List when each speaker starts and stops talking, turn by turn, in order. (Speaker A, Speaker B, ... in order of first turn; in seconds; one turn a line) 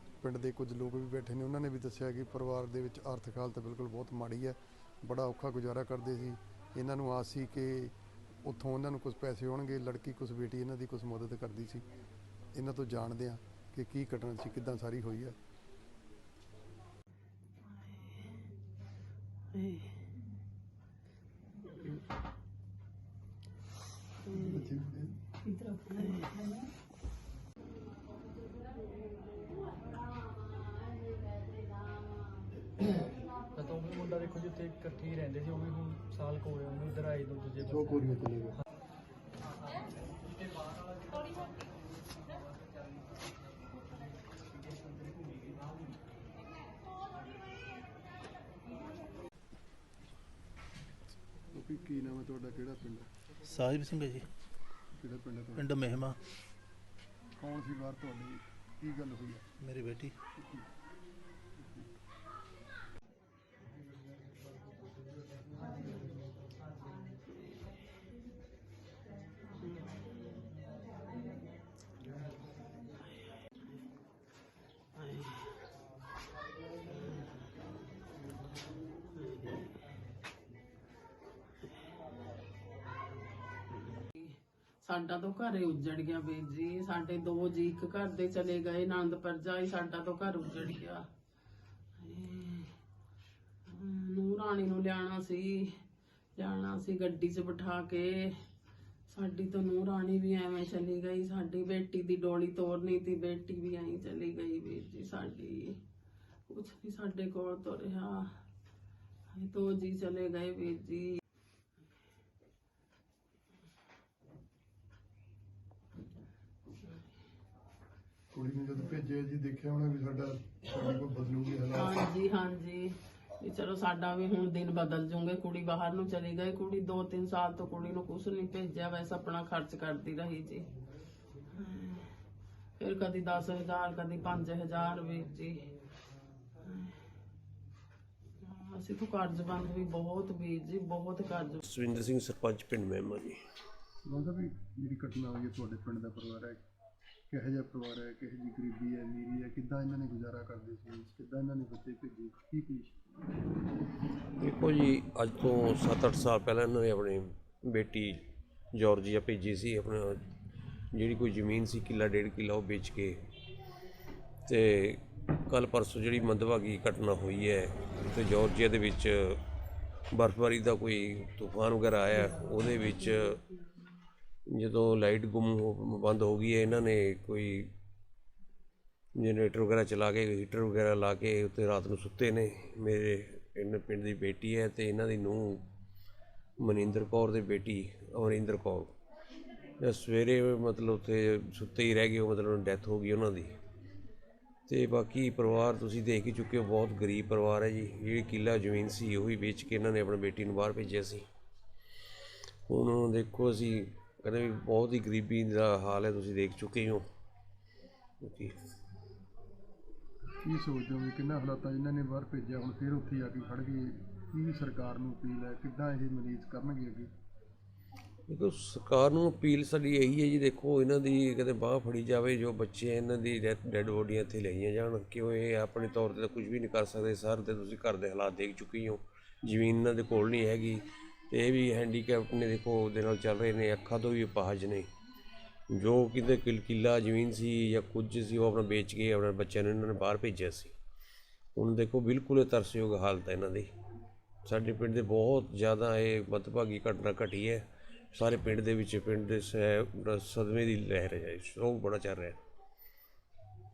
Speaker A: 0.2-11.8
Speaker A: 12.5-15.4
Speaker B: 17.8-18.3
Speaker B: 19.5-19.9
Speaker A: 24.3-25.1
Speaker B: 25.6-26.6
Speaker C: 33.5-38.1
Speaker A: 37.7-38.5
Speaker C: 41.0-41.3
Speaker A: 51.5-53.1
Speaker D: 53.4-54.3
Speaker A: 54.9-55.7
Speaker D: 55.5-56.2
Speaker A: 57.4-59.5
Speaker D: 59.6-60.1
Speaker A: 60.4-60.6
Speaker A: 61.6-61.9
Speaker B: 84.0-91.0
Speaker B: 92.0-92.7
Speaker B: 93.7-95.8
Speaker B: 96.3-98.4
Speaker B: 99.1-105.8
Speaker B: 106.5-108.3
Speaker B: 109.3-111.2
Speaker A: 118.3-122.0
Speaker B: 121.7-130.7
Speaker B: 131.5-132.1
Speaker B: 132.8-135.7
Speaker B: 136.6-136.9
Speaker B: 138.4-141.6
Speaker E: 141.6-143.4
Speaker A: 144.1-146.6
Speaker A: 147.3-153.0
Speaker E: 154.4-158.2
Speaker E: 158.7-160.2
Speaker E: 160.9-163.2
Speaker E: 164.4-169.4
Speaker E: 170.1-173.4
Speaker E: 174.5-177.7
Speaker E: 179.2-185.6
Speaker E: 186.6-188.9
Speaker E: 189.8-193.5
Speaker E: 194.7-201.2
Speaker E: 202.7-207.0
Speaker E: 208.2-208.6
Speaker A: 210.4-217.1
Speaker E: 218.3-234.9
Speaker E: 235.7-240.7
Speaker E: 241.6-243.7
Speaker E: 244.4-252.4